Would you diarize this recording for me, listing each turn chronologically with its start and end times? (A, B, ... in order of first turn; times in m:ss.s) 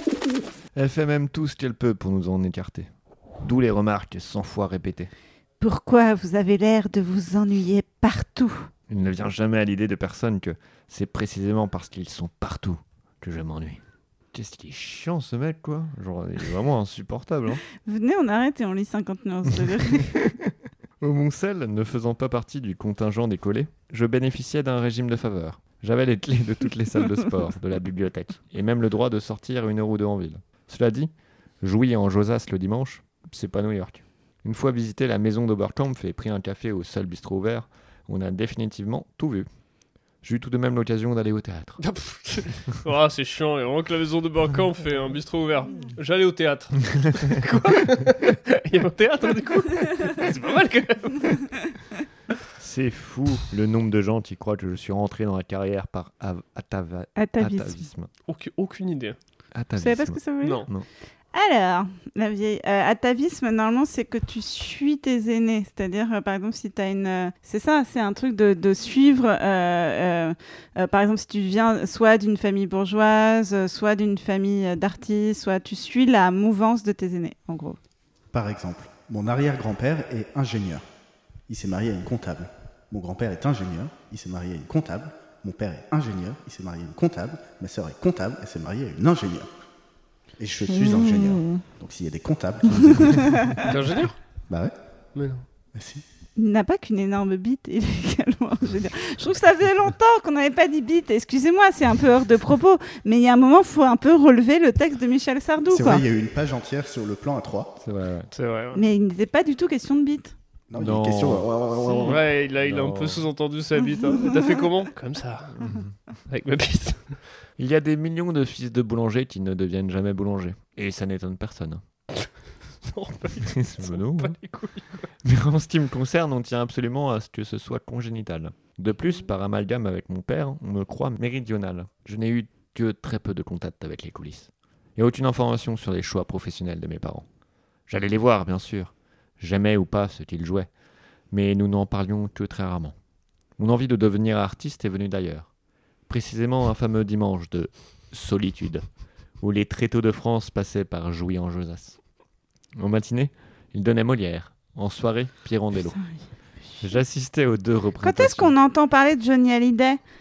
0:00.7-0:02.9 A
0:03.4-0:05.1 A
0:05.6-0:08.7 B
0:08.9-0:13.8 A
0:14.3-0:17.6 A
0:17.8-0:20.1 B
0:19.5-0:39.5 A
0:40.2-0:41.8 A
0:41.8-0:51.5 C
0:52.6-0:58.1 A
0:57.2-0:57.8 B
0:58.2-0:59.2 C
0:59.5-1:00.9 A
0:59.8-1:00.7 B
1:00.4-1:00.7 C
1:01.3-1:17.8 B
1:18.3-1:20.8 D
1:21.5-1:29.5 D
1:30.4-1:33.5 D
1:30.7-1:31.6 B
1:32.8-1:33.7 B
1:33.6-1:34.2 C
1:34.5-1:34.7 D
1:35.1-1:35.4 C
1:35.7-1:36.0 D
1:36.4-1:46.0 B
1:45.7-1:47.8 D
1:47.8-1:48.3 A
1:48.3-1:48.8 C
1:48.7-1:50.3 B
1:50.7-1:52.2 D
1:50.8-1:53.3 A
1:52.0-1:55.6 C
1:55.6-1:55.9 A
1:56.3-1:57.2 C
1:57.6-2:01.8 A
2:02.8-2:05.1 C
2:03.5-2:04.4 A
2:05.2-2:17.2 A
2:17.9-2:20.7 A
2:21.3-2:22.9 A
2:23.6-2:25.5 A
2:26.1-2:28.8 A
2:29.4-2:32.0 A
2:32.8-2:36.0 A
2:35.9-2:36.2 B
2:36.8-2:38.5 A
2:38.0-2:40.0 B